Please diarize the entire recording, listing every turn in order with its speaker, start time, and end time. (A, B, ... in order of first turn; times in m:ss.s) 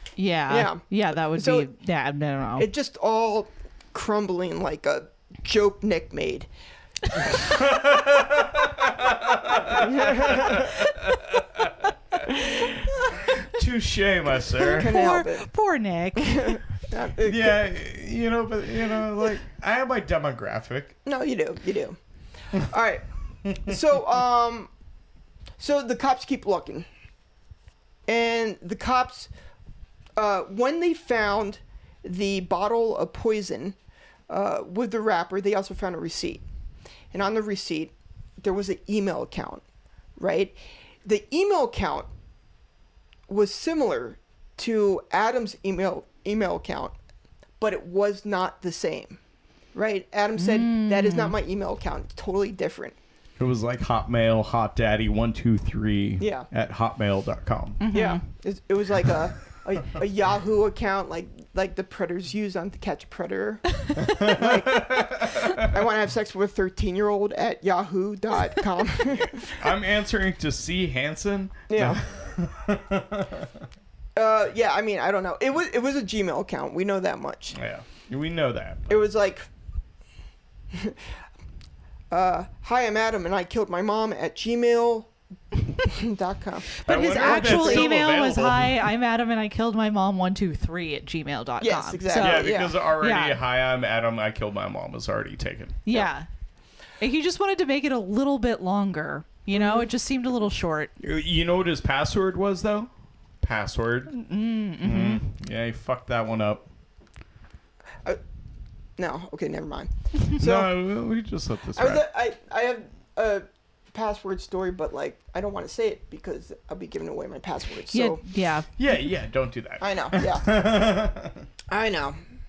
0:00.2-0:02.7 A
0:00.5-0:01.7 B
0:02.6-0:06.5 B
0:07.4-0:14.9 C
0:09.8-0:10.7 B
0:14.7-0:15.5 B
0:14.7-0:16.6 A
0:16.2-0:17.6 B
0:17.2-0:21.0 C
0:21.1-0:22.0 B
0:22.5-0:24.7 B
0:25.6-0:26.9 B
0:28.1-0:29.3 B
0:30.2-0:33.8 B
0:34.3-0:36.4 B
0:37.1-0:39.6 B
0:40.2-0:42.1 B
0:43.3-0:47.0 B
0:47.6-0:49.2 B
0:49.8-0:53.0 B
0:50.4-0:51.3 A
0:53.4-0:57.8 C
0:56.2-0:56.5 B
0:57.8-0:58.2 A
0:57.9-1:09.6 B
1:04.0-1:05.7 C
1:09.4-1:13.6 C
1:11.7-1:12.0 B
1:14.2-1:17.6 B
1:17.5-1:19.1 C
1:18.9-1:19.5 B
1:20.7-1:21.0 B
1:22.1-1:25.1 B
1:25.7-1:27.9 B
1:26.8-1:33.4 A
1:26.8-1:28.9 C
1:31.6-1:32.8 B
1:32.1-1:35.9 C
1:35.9-1:36.3 A
1:37.0-1:40.9 A
1:39.5-1:39.9 B
1:41.0-1:42.9 C
1:43.4-1:44.1 C
1:44.1-1:45.2 A
1:44.8-1:46.7 C
1:49.0-1:50.7 B
1:50.4-1:52.0 C
1:51.8-1:58.2 B
1:57.9-1:58.7 A
1:58.8-2:01.5 C
1:59.8-2:00.5 B
2:01.7-2:02.2 B